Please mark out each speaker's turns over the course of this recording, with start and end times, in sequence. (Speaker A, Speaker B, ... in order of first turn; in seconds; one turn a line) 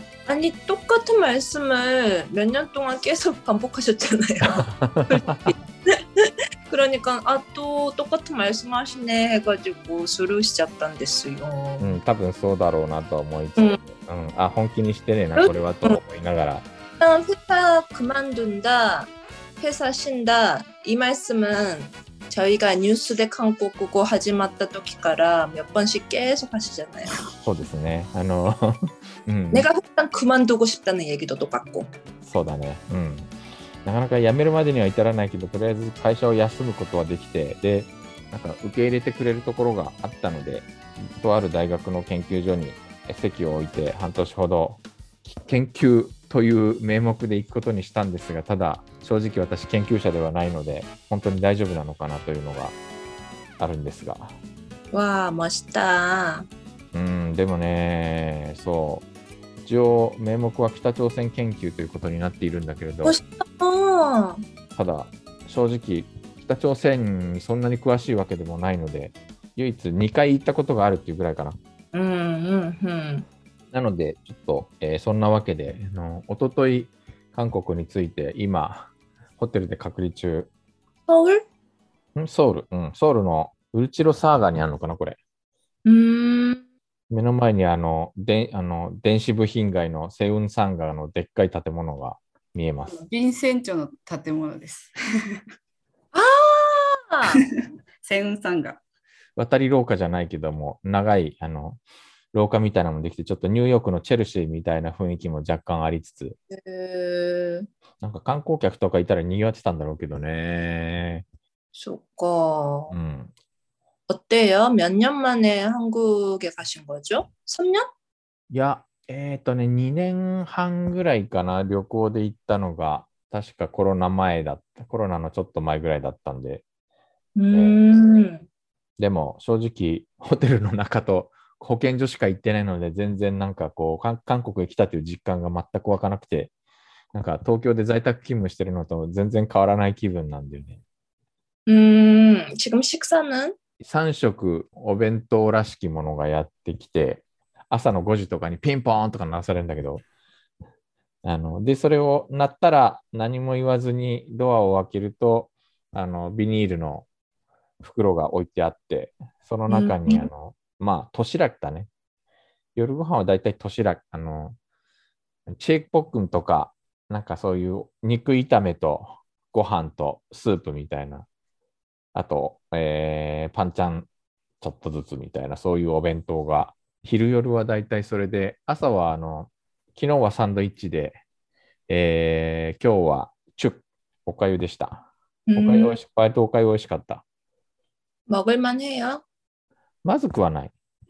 Speaker A: 0.3-12.0
Speaker B: 4.4-5.5
Speaker B: 11.8-16.7
Speaker A: 15.4-16.0
Speaker A: 17.0-27.1
Speaker B: 27.4-29.7
Speaker A: 29.5-31.9
Speaker B: 32.2-33.3
Speaker B: 33.8-52.8
Speaker B: 53.6-54.4
Speaker A: 54.9-56.5
Speaker B: 56.9-59.1
Speaker B: 59.6-63.2
Speaker A: 63.0-64.4
Speaker B: 64.8-71.6
Speaker A: 71.9-73.3
Speaker B: 73.7-80.5
Speaker A: 81.1-81.4
Speaker B: 82.2-85.2
Speaker A: 85.8-86.6
Speaker B: 87.1-93.0
Speaker C: 92.9-95.4
Speaker A: 96.1-97.5
Speaker C: 97.3-98.8
Speaker B: 99.4-101.8
Speaker B: 102.3-106.4
Speaker A: 106.5-107.7
Speaker B: 108.0-111.2
Speaker A: 111.8-113.0
Speaker B: 112.9-113.3
Speaker A: 114.1-117.9
Speaker B: 118.5-126.6
Speaker A: 127.4-128.5
Speaker B: 129.0-136.5
Speaker B: 137.1-140.8
Speaker A: 141.7-143.6
Speaker B: 143.8-150.0
Speaker B: 151.2-157.1
Speaker B: 157.8-161.9
Speaker A: 159.7-160.3
Speaker B: 162.8-164.6
Speaker B: 165.5-171.3
Speaker B: 172.1-174.1
Speaker B: 174.6-181.2
Speaker B: 181.9-187.2
Speaker A: 185.5-186.0
Speaker A: 188.3-189.2
Speaker B: 190.0-190.7